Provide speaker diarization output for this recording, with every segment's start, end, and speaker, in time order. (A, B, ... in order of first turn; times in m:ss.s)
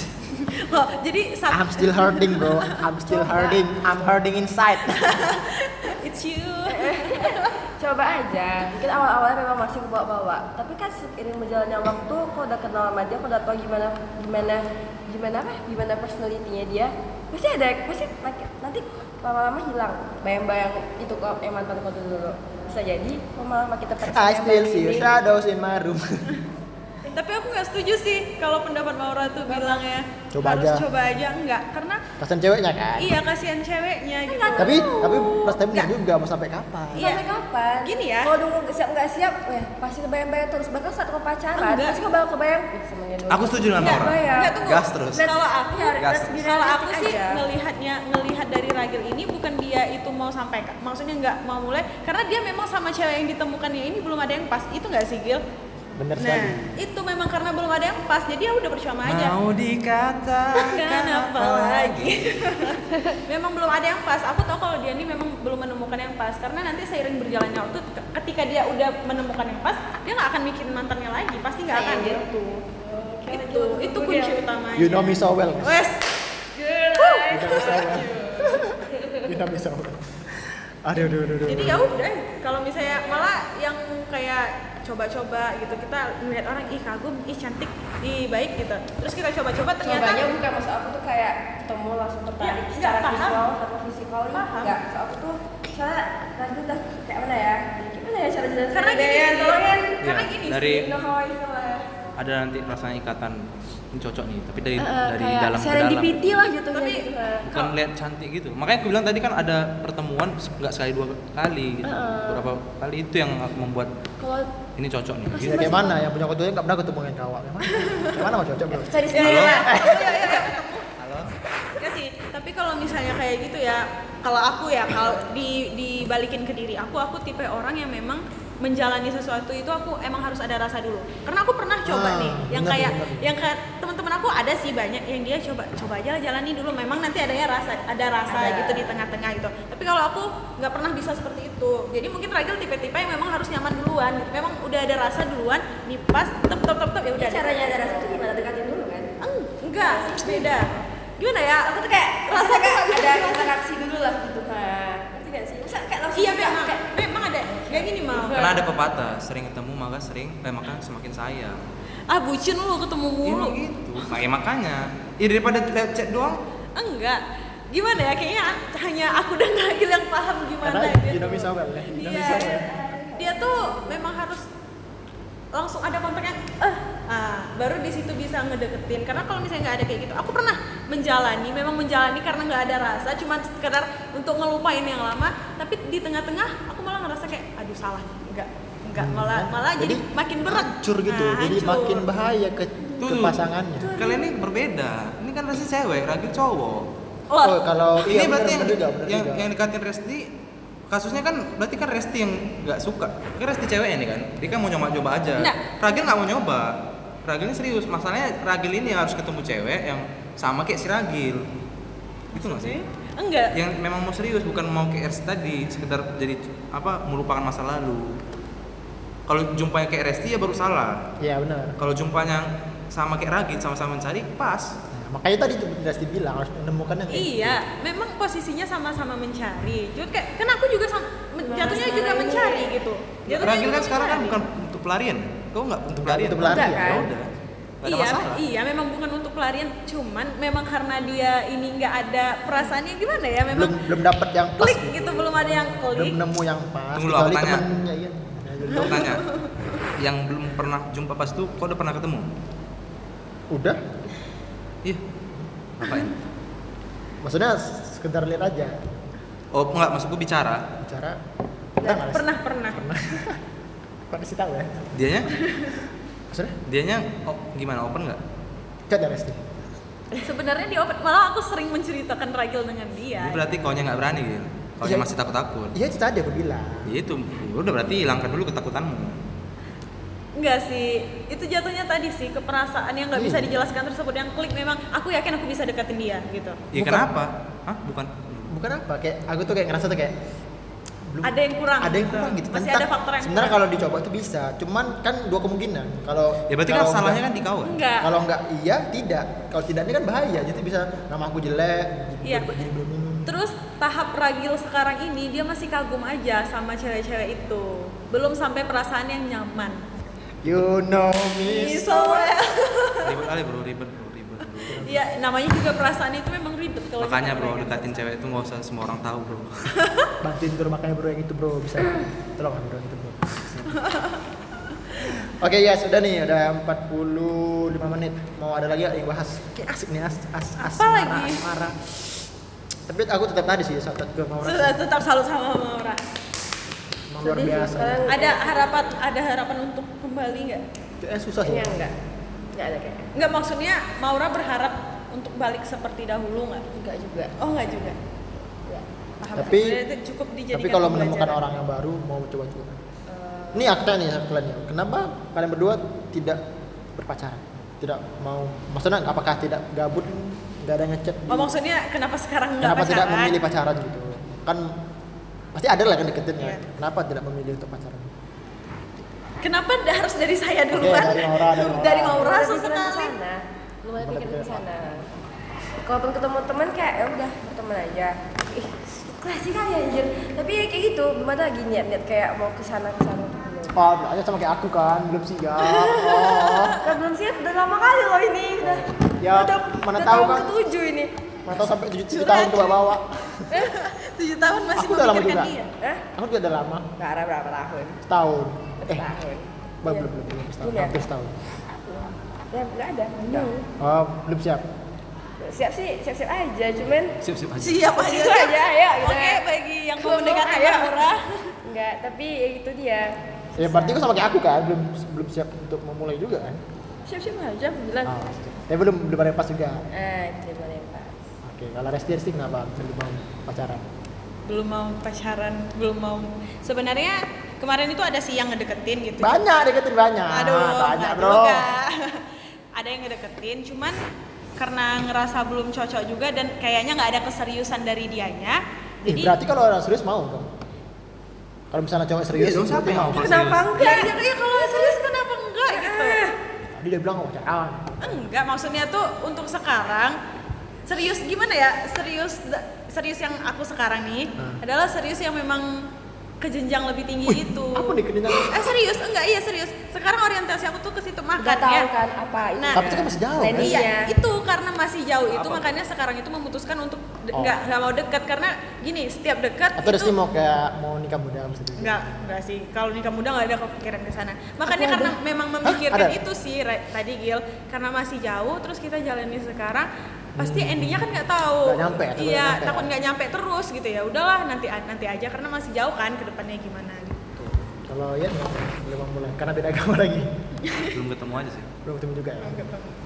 0:00.4-0:02.8 A
0:01.5-0:05.3 B
0:03.1-0:03.6 C
0:05.0-0:07.5 A
0:06.7-0:25.1 C
0:24.1-0:26.4 B
0:27.0-0:32.0 A
0:29.5-0:29.8 C
0:30.3-0:30.8 B
0:32.2-0:33.2 B
0:33.0-0:35.9 A
0:34.3-0:34.8 C
0:34.6-0:37.1 B
0:36.9-0:44.5 C
0:37.0-0:37.2 A
0:37.8-0:38.3 A
0:41.6-0:42.1 A
0:43.3-0:45.3 D
0:43.8-0:55.4 A
0:45.1-0:47.4 C
0:46.0-0:46.4 D
0:56.0-0:56.8 B
0:56.2-0:59.4 A
0:59.0-1:02.4 E
1:00.7-1:12.6 A
1:02.8-1:03.2 C
1:11.7-1:14.6 C
1:13.3-1:16.0 A
1:14.7-1:15.9 B
1:16.6-1:19.3 C
1:17.0-1:18.1 A
1:17.3-1:21.9 B
1:21.4-1:30.3 A
1:29.8-1:40.0 C
1:32.4-1:33.4 A
1:34.3-1:34.7 A
1:38.7-1:40.7 A
1:40.0-1:40.9 D
1:40.6-1:41.9 C
1:42.2-1:43.4 D
1:43.9-1:46.3 D
1:44.8-1:47.5 C
1:46.7-1:47.7 A
1:47.5-1:53.9 D
1:51.8-1:52.5 C
1:54.2-1:54.5 C
1:54.8-1:55.7 D
1:55.3-1:56.0 C
1:55.4-2:00.2 B
1:58.7-2:00.4 C
1:59.1-2:00.9 A
1:59.2-1:59.6 D
2:01.0-2:01.3 D
2:01.8-2:28.2 A
2:11.8-2:13.3 B
2:18.3-2:18.9 C
2:27.2-2:29.1 C
2:29.2-2:33.5 A
2:29.8-2:30.6 C
2:31.6-2:36.9 C
2:36.1-2:38.6 A
2:37.5-2:38.6 C
2:38.3-2:41.6 D
2:42.1-2:43.6 A
2:43.2-2:46.4 D
2:46.8-2:54.5 A
2:50.6-2:52.7 B
2:52.1-2:54.2 C
2:55.5-3:12.0 A
3:08.9-3:13.9 B
3:13.0-3:13.4 D
3:13.8-3:14.4 C
3:13.9-3:16.9 D
3:17.3-3:17.6 A
3:17.4-3:19.4 B
3:18.0-3:20.3 D
3:20.9-3:26.7 D
3:25.4-3:25.9 A
3:27.2-3:31.4 D
3:32.3-3:33.5 A
3:32.3-3:32.8 D
3:33.5-3:38.1 D
3:39.3-3:41.0 D
3:41.2-3:41.8 B
3:41.8-3:44.7 D
3:44.9-3:47.6 B
3:47.1-3:54.4 A
3:51.4-3:52.7 C
3:53.3-3:57.3 D
3:55.9-3:57.1 B
3:56.4-3:57.1 C
3:57.8-3:58.4 D
3:57.8-4:03.8 A
4:03.5-4:09.2 B
4:04.6-4:06.2 A
4:06.9-4:07.6 D
4:08.8-4:09.2 D
4:08.8-4:09.4 A
4:10.0-4:12.3 D
4:13.5-4:13.8 B
4:15.8-4:16.1 D
4:17.2-4:19.0 B
4:19.5-4:20.6 D
4:20.8-4:21.2 B
4:21.8-4:23.4 B
4:22.1-4:22.8 A
4:24.1-4:24.9 B
4:24.9-4:25.3 D
4:25.5-4:25.8 A
4:26.3-4:26.6 B
4:26.6-4:28.2 D
4:28.9-4:29.7 B
4:30.2-4:33.4 A
4:33.2-4:35.7 D
4:34.8-4:35.1 B
4:35.7-4:36.9 B
4:36.8-4:39.2 D
4:40.4-4:46.6 A
4:43.1-4:43.6 B
4:46.7-4:48.5 D
4:46.8-4:47.1 B
4:48.5-4:50.2 B
4:51.1-4:57.2 B
4:51.2-4:53.6 A
4:56.5-4:57.8 D
4:57.6-4:58.1 A
4:58.0-5:03.4 B
5:03.2-5:09.8 A
5:10.4-5:12.3 B
5:11.4-5:13.2 A
5:13.0-5:14.8 D
5:14.7-5:15.1 B
5:14.8-5:18.0 A
5:17.0-5:19.7 D
5:19.8-5:20.1 A
5:20.2-5:23.8 B
5:23.9-5:24.2 A
5:25.0-5:31.9 B
5:30.6-5:31.4 A
5:32.9-5:34.8 B
5:34.4-5:36.0 A
5:37.1-5:38.1 B
5:37.2-5:39.0 C
5:38.1-5:40.6 A
5:41.0-5:41.9 B
5:41.4-5:41.9 C
5:42.5-5:43.1 C
5:43.1-5:46.6 A
5:46.7-5:47.3 C
5:47.4-5:48.0 A
5:49.2-5:51.4 A
5:49.4-5:49.8 B
5:50.5-5:52.8 B
5:53.1-5:53.7 C
5:53.5-5:56.4 B
5:57.0-6:01.5 B
6:01.3-6:03.3 A
6:02.6-6:04.7 B
6:05.5-6:08.1 B
6:09.4-6:13.1 A
6:10.7-6:12.3 B
6:12.1-6:15.0 C
6:14.0-6:14.7 B
6:15.8-6:23.7 C
6:23.7-6:26.8 B
6:26.1-6:26.6 A
6:26.7-6:31.1 C
6:28.6-6:30.5 B
6:31.4-6:33.4 B
6:32.1-6:33.0 A
6:33.5-6:33.9 C
6:33.5-6:35.7 A
6:34.8-6:35.5 B
6:36.1-6:36.9 B
6:37.0-6:38.0 C
6:38.0-6:39.1 B
6:38.8-6:40.1 C
6:39.8-6:41.4 B
6:40.6-6:41.0 C
6:41.9-6:43.6 C
6:43.3-6:44.6 B
6:45.4-6:47.2 C
6:47.2-6:48.0 D
6:47.6-6:51.5 A
6:47.9-6:49.4 C
6:50.0-6:51.1 C
6:51.6-6:54.0 C
6:53.6-6:56.6 B
6:57.1-6:58.2 C
6:58.0-6:59.8 B
6:59.9-7:01.2 C
7:01.4-7:03.9 B
7:04.4-7:09.4 A
7:09.2-7:11.7 B
7:10.3-7:14.0 A
7:14.6-7:19.3 A
7:19.0-7:20.5 B
7:21.7-7:23.5 B
7:22.3-7:23.8 D
7:23.2-7:25.0 C
7:23.8-7:26.2 A
7:25.7-7:26.4 C
7:26.8-7:28.3 B
7:28.0-7:30.2 A
7:30.9-7:35.7 A
7:36.4-7:41.9 A
7:37.2-7:38.7 B
7:41.4-7:44.1 C
7:42.6-7:43.0 A
7:42.7-7:43.8 B
7:43.5-7:50.1 A
7:45.3-7:45.7 D
7:49.8-7:52.3 B
7:51.8-7:59.9 A
7:54.6-7:56.2 B
8:00.4-8:02.9 B
8:00.4-8:07.3 A
8:07.4-8:10.3 B
8:10.6-8:10.9 A
8:10.9-8:11.7 D
8:11.8-8:12.7 B
8:12.4-8:12.9 A